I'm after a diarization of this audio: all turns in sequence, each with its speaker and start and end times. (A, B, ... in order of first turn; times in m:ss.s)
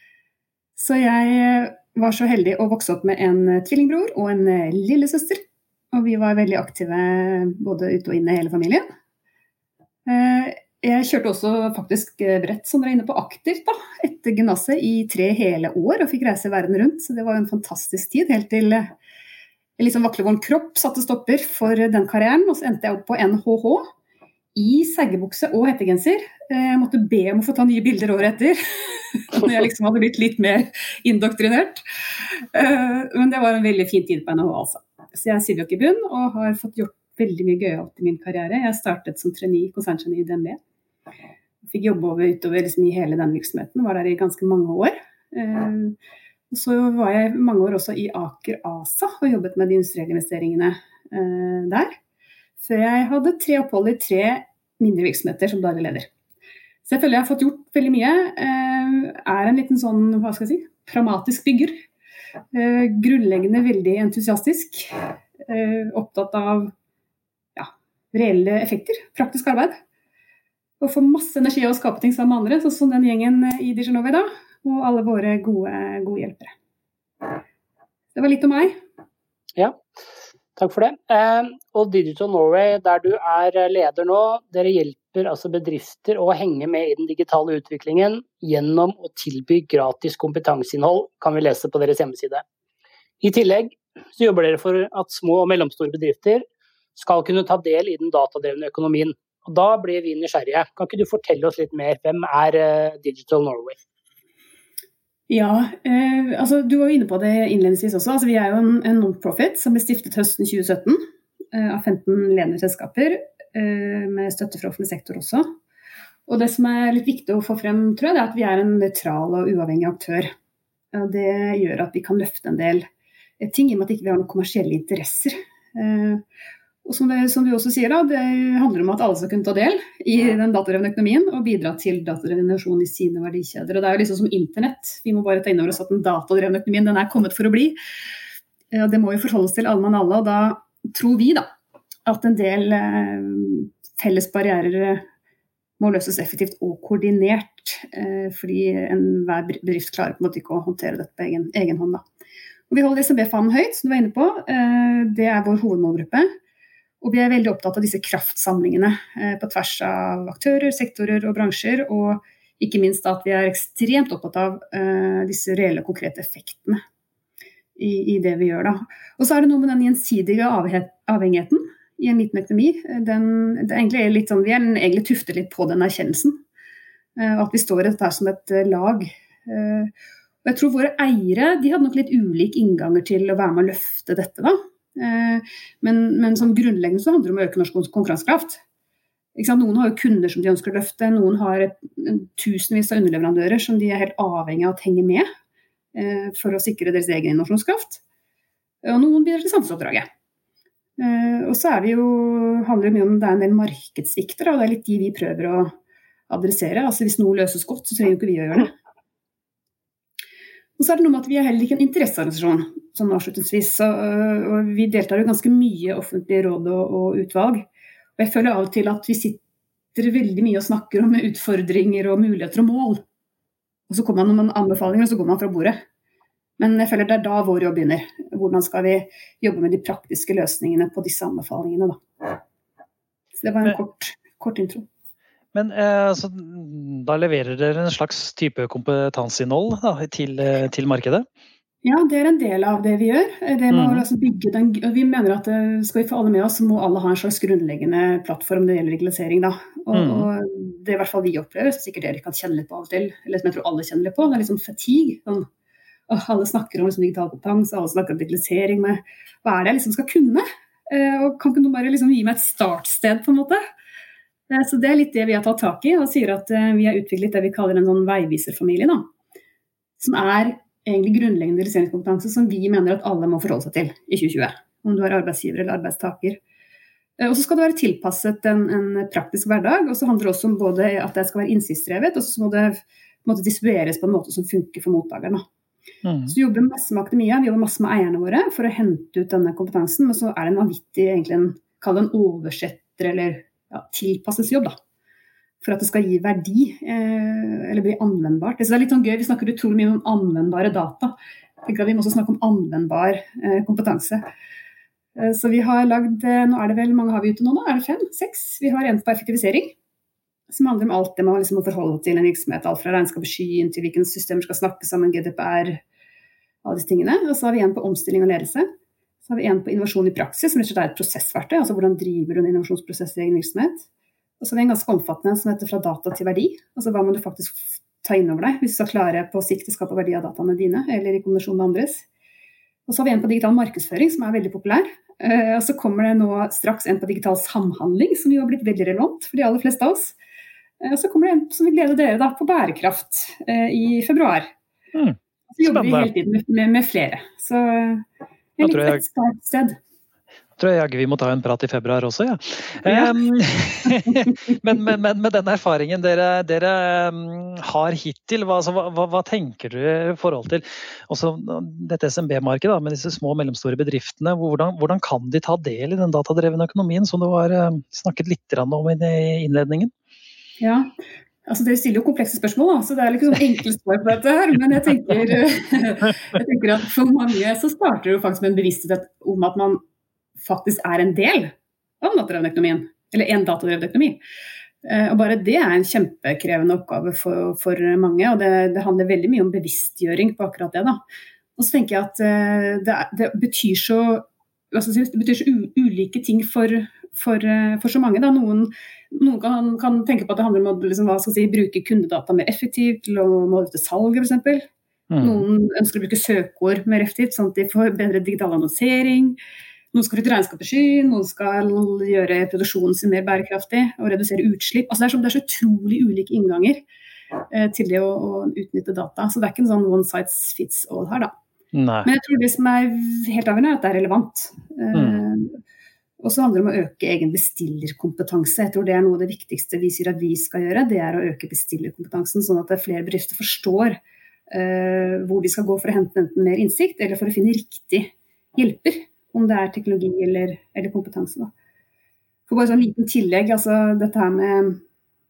0:00.8-0:08.8 A
0:10.0-0:18.9 A
0:19.8-0:23.8 A
0:24.5-0:40.6 A
0:41.6-0:46.0 A
0:46.5-0:51.9 A
0:52.6-0:56.1 A
0:56.8-1:01.8 A
1:02.5-1:06.7 A
1:07.6-1:09.8 A
1:10.8-1:16.5 A
1:18.1-1:18.8 A
1:19.6-1:19.8 B
1:20.6-1:32.4 B
1:33.2-1:36.4 B
1:37.0-1:43.8 B
1:45.3-1:51.0 A
1:51.5-1:55.5 A
1:56.3-2:00.3 A
2:00.9-2:02.8 A
2:03.4-2:06.2 A
2:06.8-2:17.8 A
2:18.7-2:21.4 A
2:22.0-2:25.0 A
2:25.8-2:32.0 A
2:32.7-2:36.3 A
2:37.0-2:46.8 A
2:47.8-2:56.4 A
2:57.2-2:59.9 A
3:00.4-3:08.6 A
3:09.4-3:15.3 A
3:15.9-3:18.0 A
3:18.8-3:20.0 A
3:21.0-3:25.7 A
3:26.3-3:28.7 A
3:30.8-3:37.6 A
3:38.2-3:39.4 A
3:39.9-3:43.0 A
3:43.9-3:45.8 A
3:46.6-3:52.4 A
3:53.4-3:54.9 A
3:55.5-4:01.2 C
4:01.8-4:15.4 A
4:03.7-4:04.0 C
4:09.9-4:10.3 C
4:16.1-4:23.6 A
4:24.5-4:29.1 A
4:30.0-4:36.4 A
4:37.2-4:45.4 A
4:46.0-4:46.3 C
4:46.3-4:54.7 A
4:55.6-5:04.2 A
5:05.2-5:09.7 A
5:10.5-5:15.8 A
5:16.6-5:18.7 A
5:19.2-5:23.8 A
5:24.4-5:32.0 A
5:32.9-5:40.2 A
5:40.8-5:44.5 A
5:44.9-5:46.1 C
5:45.5-5:48.0 A
5:48.6-5:49.8 A
5:48.6-5:49.0 C
5:50.6-6:09.9 C
5:52.8-5:53.1 A
5:53.9-5:54.2 A
6:10.6-6:10.9 A
6:11.4-6:19.8 A
6:20.4-6:24.2 A
6:24.8-6:31.0 A
6:31.6-6:44.6 A
6:45.1-6:45.4 C
6:45.2-6:49.4 A
6:49.9-6:56.8 A
6:57.5-7:01.3 A
7:01.7-7:02.1 C
7:02.0-7:05.6 A
7:04.9-7:05.2 C
7:06.2-7:14.0 A
7:14.5-7:21.5 A
7:22.5-7:24.8 A